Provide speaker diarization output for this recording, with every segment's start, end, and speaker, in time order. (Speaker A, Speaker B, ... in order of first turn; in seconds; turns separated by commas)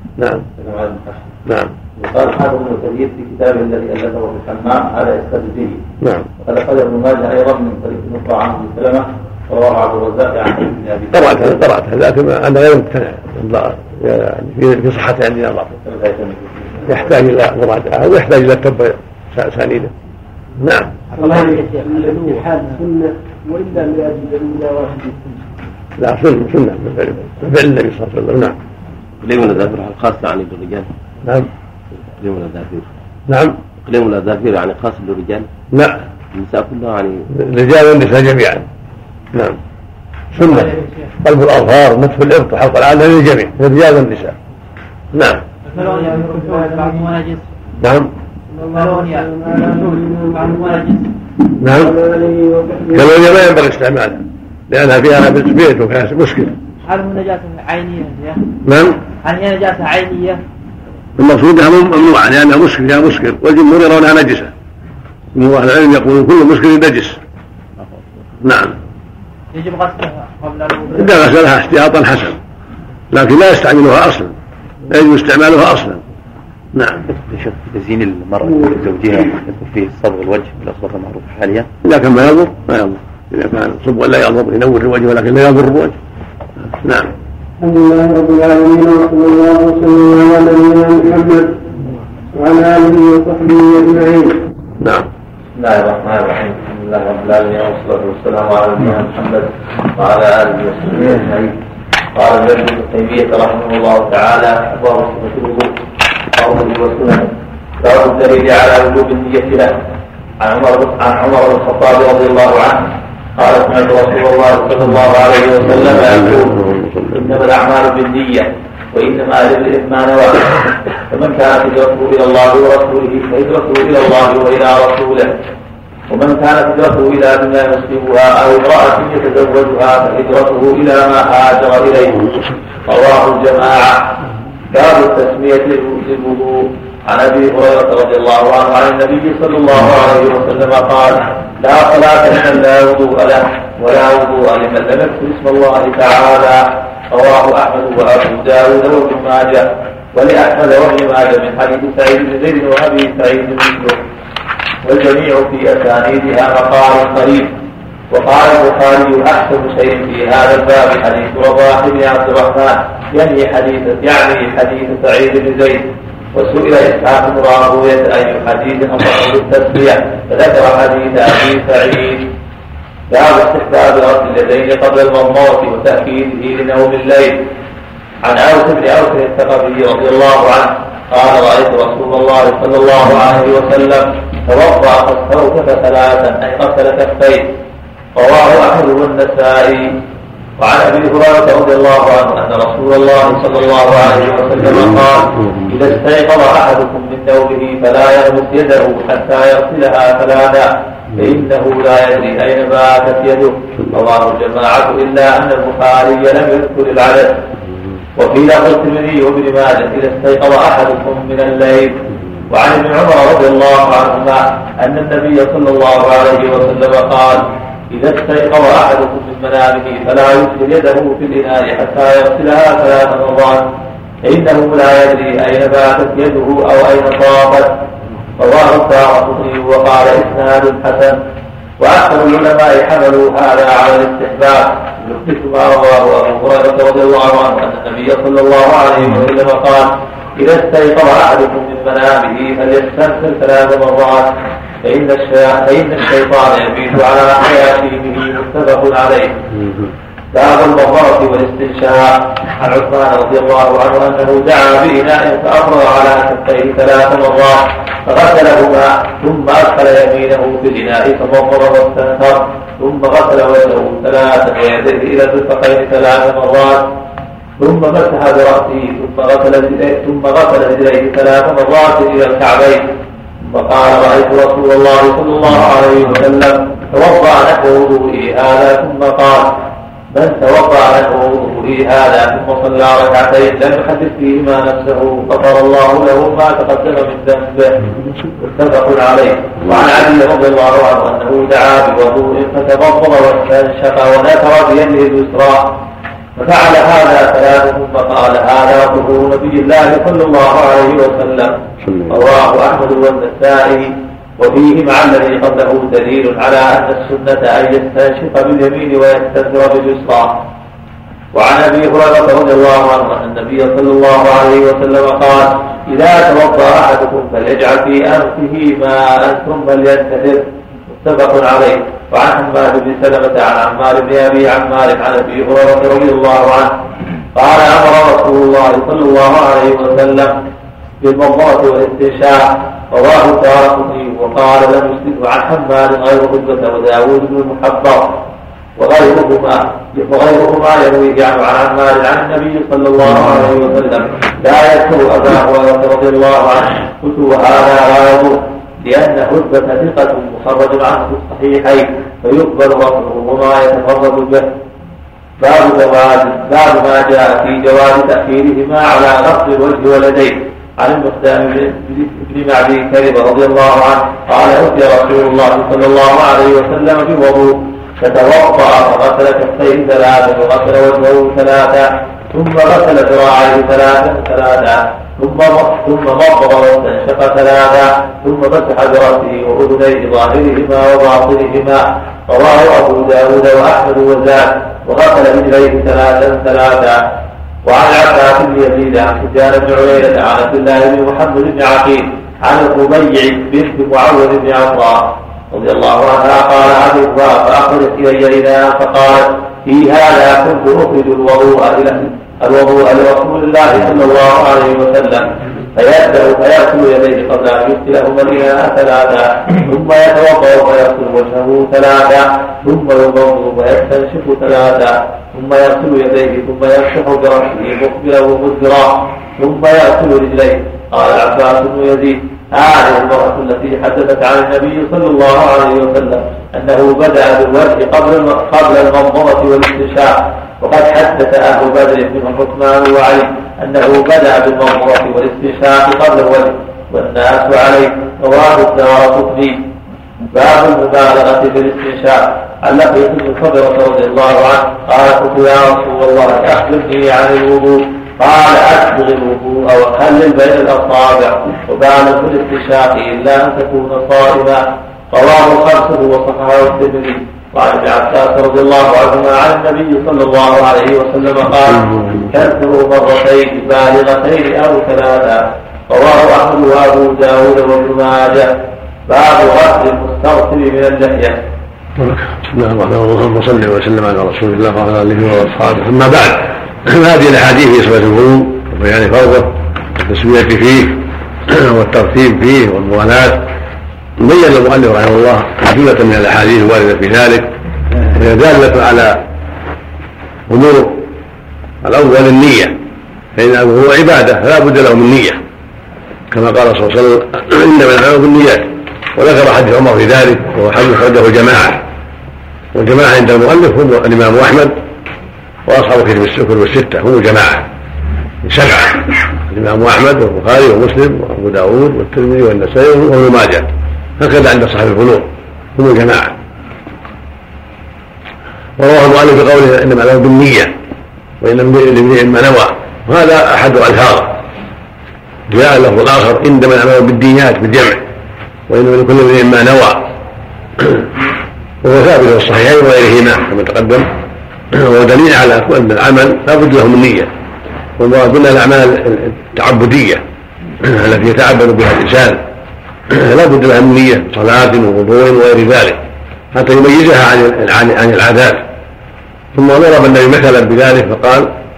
Speaker A: 0.2-0.5, Speaker B: 0.6-1.1, Speaker A: 1.4-1.7, Speaker B: 2.0-5.8, Speaker A: 6.0-6.3, Speaker B: 6.4-11.6, Speaker A: 11.1-15.8, Speaker B: 15.8-16.5, Speaker A: 16.9-19.9, Speaker A: 20.6-21.0, Speaker C: 21.1-25.4, Speaker D: 21.3-22.4, Speaker A: 26.0-28.6, Speaker E: 29.2-30.9, Speaker E: 32.2-32.9, Speaker A: 33.3-33.6, Speaker E: 33.8-35.5, Speaker A: 35.7-36.0, Speaker E: 36.3-37.2, Speaker A: 37.3-38.6, Speaker A: 39.3-39.6, Speaker A: 40.3-44.4, Speaker D: 40.4-41.1, Speaker A: 45.1-45.4, Speaker D: 45.6-47.4, Speaker C: 45.7-47.1, Speaker A: 47.8-48.1, Speaker C: 48.6-50.5, Speaker D: 48.6-51.1, Speaker A: 51.6-51.9, Speaker C: 51.8-53.1, Speaker A: 52.9-56.5, Speaker D: 56.9-58.5, Speaker A: 58.6-59.0, Speaker D: 59.2-60.4, Speaker A: 61.2-64.5, Speaker A: 65.3-67.2, Speaker A: 68.4-68.8, Speaker D: 69.5-71.2, Speaker A: 70.9-72.4, Speaker A: 73.1-74.3, Speaker A: 74.9-76.0, Speaker A: 76.7-77.0, Speaker E: 77.1-81.7, Speaker A: 81.8-86.0, Speaker A: 86.8-91.5, Speaker A: 92.3-95.1, Speaker B: 95.6-99.4, Speaker E: 97.6-98.2, Speaker B: 100.0-100.5, Speaker E: 100.3-101.5, Speaker B: 102.1-105.7, Speaker B: 106.4-107.3, Speaker B: 107.8-109.7, Speaker B: 110.4-112.8, Speaker B: 113.4-116.5, Speaker A: 115.6-117.4, Speaker B: 117.1-125.3, Speaker B: 126.1-132.2, Speaker B: 132.9-134.1, Speaker B: 134.7-154.0, Speaker B: 154.8-157.5, Speaker B: 158.1-165.8, Speaker B: 166.3-172.3, Speaker B: 173.1-177.3, Speaker B: 178.2-187.4, Speaker B: 188.2-189.9, Speaker B: 190.6-207.3, Speaker B: 208.2-211.9, Speaker B: 212.5-223.6, Speaker B: 224.2-227.7, Speaker B: 228.4-231.2, Speaker B: 231.8-244.3, Speaker B: 244.8-249.3, Speaker B: 250.3-266.8, Speaker B: 267.6-272.8, Speaker B: 273.4-279.5, Speaker B: 280.1-287.7, Speaker B: 288.4-295.8, Speaker B: 296.4-301.6, Speaker B: 302.1-310.4, Speaker B: 311.3-320.4, Speaker B: 321.0-326.7, Speaker B: 327.3-330.3, Speaker B: 331.0-338.2, Speaker B: 338.8-354.5, Speaker B: 355.4-387.0, Speaker B: 387.6-439.5, Speaker B: 440.3-454.6, Speaker B: 455.1-468.5, Speaker A: 461.8-462.3, Speaker B: 469.1-471.4, Speaker A: 472.0-483.5, Speaker A: 484.2-487.5, Speaker A: 488.1-489.2, Speaker A: 490.5-491.1, Speaker A: 491.8-492.8, Speaker A: 493.4-495.4, Speaker A: 496.3-501.8, Speaker A: 502.7-504.7, Speaker A: 505.6-507.7, Speaker A: 508.4-516.4, Speaker A: 518.8-520.7, Speaker A: 521.4-524.4, Speaker A: 525.5-528.0, Speaker A: 528.7-530.0, Speaker A: 530.8-531.0, Speaker A: 531.8-534.1, Speaker A: 534.7-537.3, Speaker A: 538.0-540.2, Speaker A: 540.8-542.4, Speaker A: 543.1-546.0, Speaker A: 546.5-548.6, Speaker A: 549.5-551.5